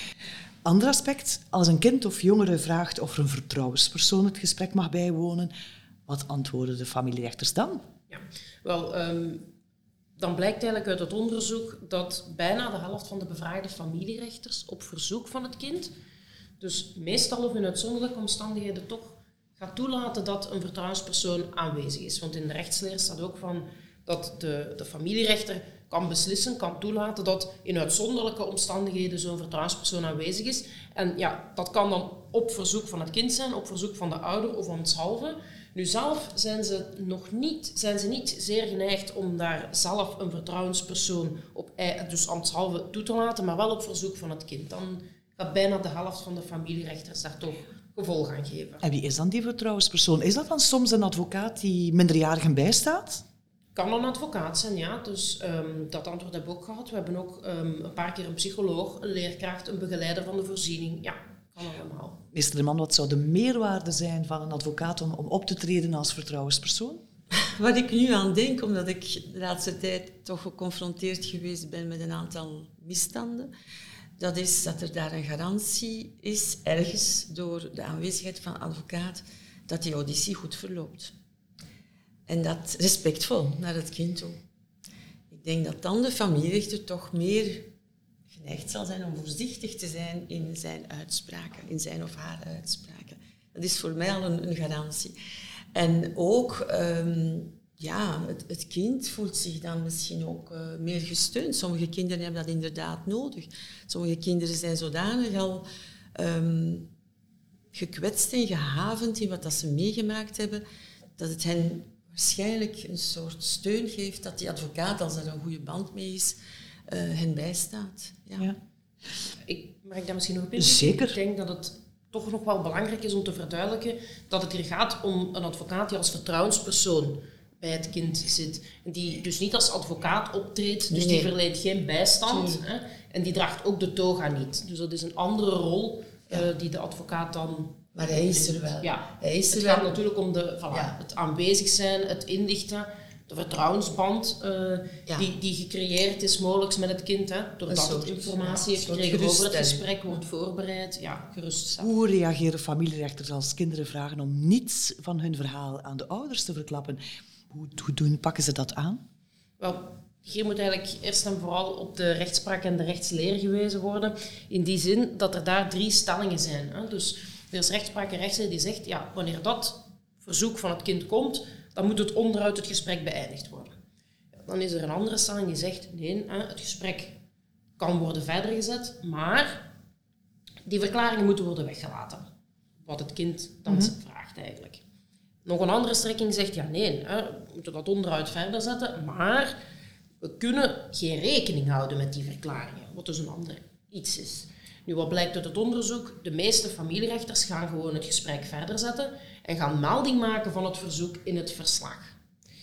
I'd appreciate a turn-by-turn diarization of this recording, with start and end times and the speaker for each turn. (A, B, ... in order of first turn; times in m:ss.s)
0:00.6-0:05.5 A
0:06.1-0:07.8 A
0:08.1-0:09.5 B
0:10.2-0:15.9 B
0:16.6-0:48.8 B
0:48.8-0:53.2 A
0:53.8-1:02.2 B
1:02.3-1:07.0 A
1:07.4-1:13.5 C
1:14.2-1:21.1 C
1:22.3-1:24.4 C
1:25.3-1:27.7 C
1:28.3-1:35.2 C
1:35.7-1:46.9 C
1:47.7-1:50.6 C
1:51.2-1:58.5 C
1:59.5-2:31.9 B
2:00.6-2:01.2 A
2:10.9-2:11.3 C
2:12.3-2:12.6 C
2:18.0-2:20.0 C
2:20.7-2:21.0 C
2:27.7-2:29.9 C
2:31.8-2:39.0 A
2:39.6-2:53.7 B
2:54.5-2:57.2 B
2:57.8-2:59.7 B
3:00.7-3:02.3 B
3:02.8-3:04.8 B
3:05.4-3:09.6 B
3:10.2-3:22.1 B